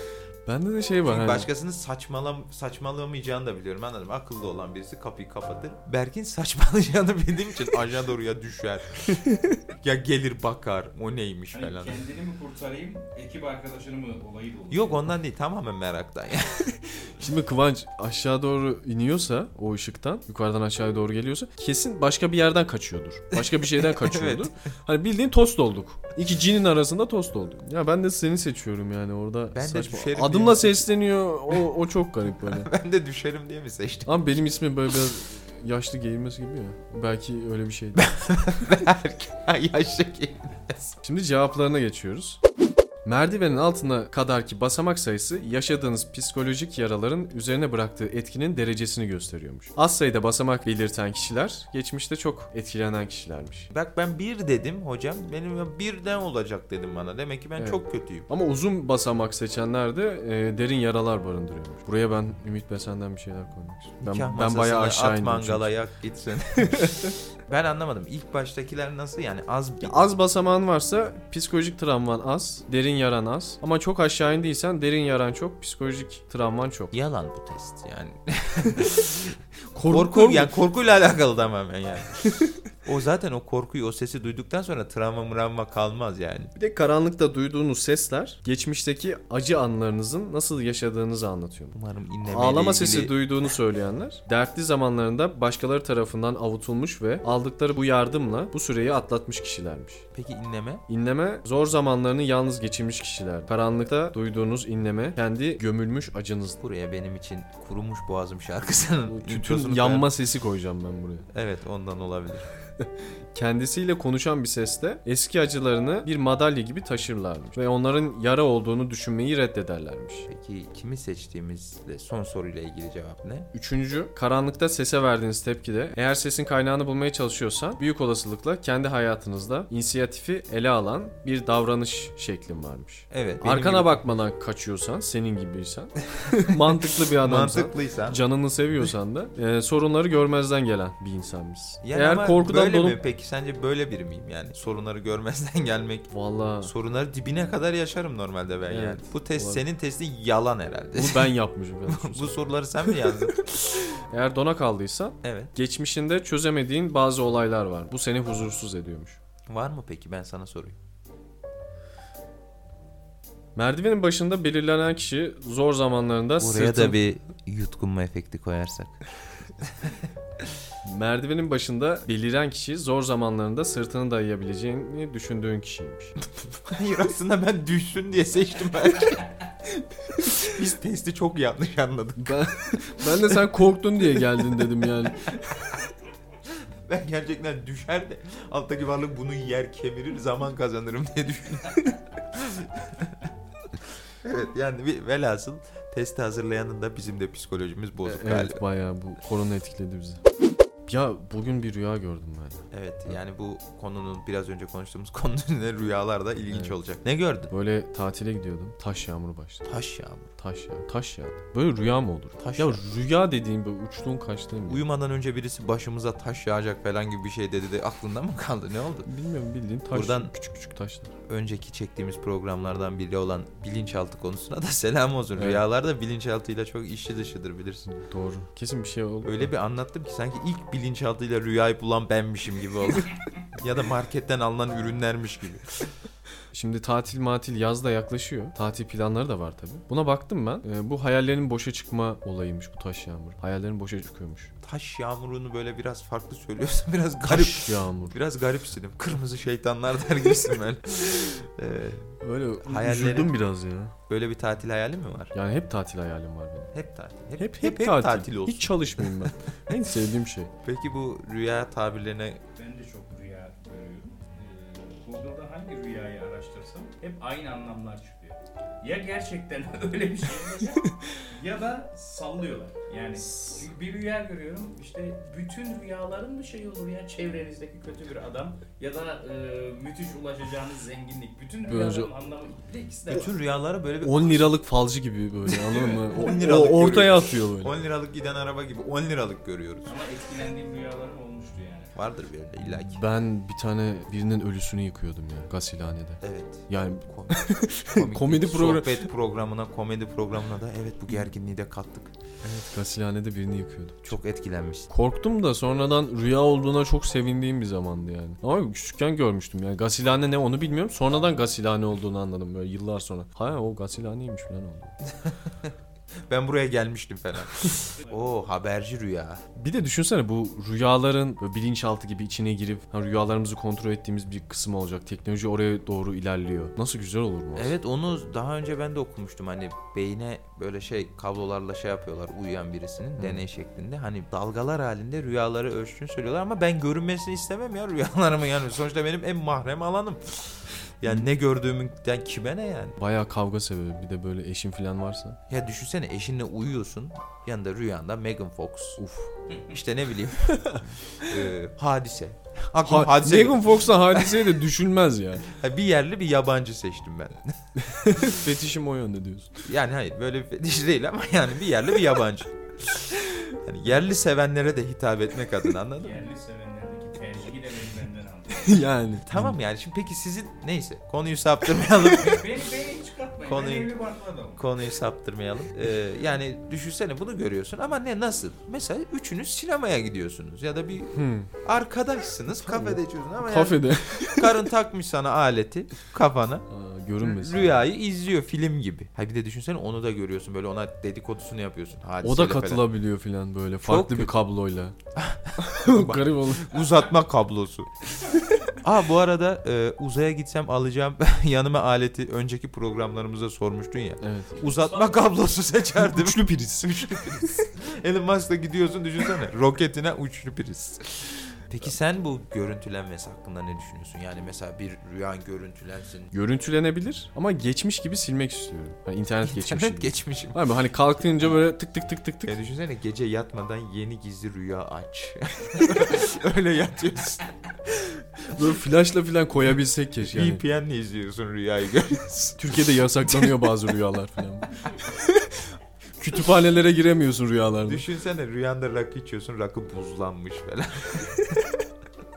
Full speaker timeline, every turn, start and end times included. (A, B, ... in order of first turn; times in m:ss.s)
0:00.5-0:01.5 A
0:01.1-0:09.0 B
0:09.3-0:09.6 A
0:09.8-0:12.0 B
0:11.5-0:15.1 C
0:14.7-0:17.1 B
0:17.2-0:32.7 A
0:23.3-0:24.5 B
0:29.5-0:30.9 B
0:32.4-0:34.3 B
0:34.1-0:38.1 A
0:38.0-0:41.0 B
0:41.0-0:42.4 A
0:43.0-0:53.7 A
0:53.7-0:58.3 B
0:57.6-1:05.7 A
1:04.0-1:10.1 B
1:06.8-1:07.1 A
1:09.8-1:16.9 A
1:16.9-1:22.2 B
1:19.7-1:20.5 A
1:22.8-1:26.5 B
1:26.6-1:40.0 A
1:31.7-1:33.3 B
1:40.1-1:40.8 B
1:40.9-1:46.6 A
1:46.6-1:50.1 B
1:49.1-1:51.3 A
1:51.3-1:52.5 B
1:53.3-2:00.3 A
2:00.3-2:03.5 B
2:03.5-2:23.0 A
2:13.1-2:14.0 B
2:17.2-2:18.2 B
2:21.8-2:33.4 B
2:26.1-2:26.7 A
2:28.7-2:29.6 A
2:31.0-2:32.4 A
2:33.8-2:39.2 A
2:35.2-2:35.5 B
2:39.5-2:40.8 B
2:43.6-2:47.0 A
2:46.4-2:49.0 B
2:49.6-2:50.0 B
2:50.8-2:56.2 A
2:56.6-2:59.3 B
3:00.2-3:05.0 B
3:02.2-3:05.3 A
3:06.9-3:13.2 B
3:14.2-3:18.6 B
3:18.1-3:20.2 A
3:20.9-3:22.6 A
3:22.7-3:27.5 B
3:26.5-3:26.8 A
3:27.5-3:29.7 A
3:29.6-3:30.3 B
3:30.4-3:34.8 A
3:32.4-3:32.8 B
3:34.7-3:39.1 B
3:39.1-3:41.1 A
3:39.9-3:40.3 B
3:41.3-3:48.0 B
3:45.4-3:45.6 A
3:47.9-3:49.5 A
3:49.2-3:55.8 B
3:56.5-4:04.5 A
4:04.6-4:12.1 B
4:07.3-4:08.2 A
4:12.2-4:13.9 A
4:12.6-4:13.4 B
4:14.1-4:15.3 B
4:15.3-4:16.7 A
4:16.7-4:19.3 B
4:17.4-4:20.5 A
4:20.6-4:22.4 B
4:22.6-4:43.4 C
4:33.2-4:33.6 A
4:41.7-4:42.1 A
4:43.1-4:44.5 B
4:44.0-4:47.8 A
4:45.7-4:49.9 B
4:49.9-4:51.9 C
4:52.0-4:53.0 B
4:52.8-4:59.1 A
4:56.2-5:02.1 B
5:02.4-5:04.2 A
5:04.0-5:04.9 B
5:04.9-5:14.9 A
5:15.2-5:15.7 B
5:16.3-5:19.4 B
5:19.6-5:27.7 A
5:27.6-5:43.0 B
5:33.2-5:33.4 A
5:43.0-5:45.4 A
5:45.5-5:49.0 B
5:49.0-5:49.3 A
5:49.5-5:54.6 B
5:50.6-5:51.2 A
5:52.8-5:55.4 A
5:55.4-5:57.5 B
5:57.8-5:59.5 A
5:59.6-6:03.0 B
6:03.6-6:06.2 B
6:06.0-6:08.9 C
6:08.5-6:09.6 A
6:09.2-6:12.6 B
6:12.2-6:14.6 C
6:13.4-6:14.0 B
6:14.6-6:26.6 B
6:21.1-6:21.5 A
6:22.7-6:24.6 A
6:26.7-6:27.8 A
6:27.2-6:32.9 B
6:32.2-6:35.0 A
6:33.8-6:34.3 B
6:35.2-6:37.9 B
6:35.6-6:36.8 A
6:38.8-6:56.3 B
6:44.2-6:44.7 A
6:46.0-6:47.5 A
6:56.3-7:02.6 A
6:59.4-7:00.7 B
7:02.5-7:07.5 B
7:08.5-7:10.6 A
7:10.2-7:13.8 B
7:12.6-7:15.5 A
7:16.2-7:18.0 A
7:17.8-7:21.6 B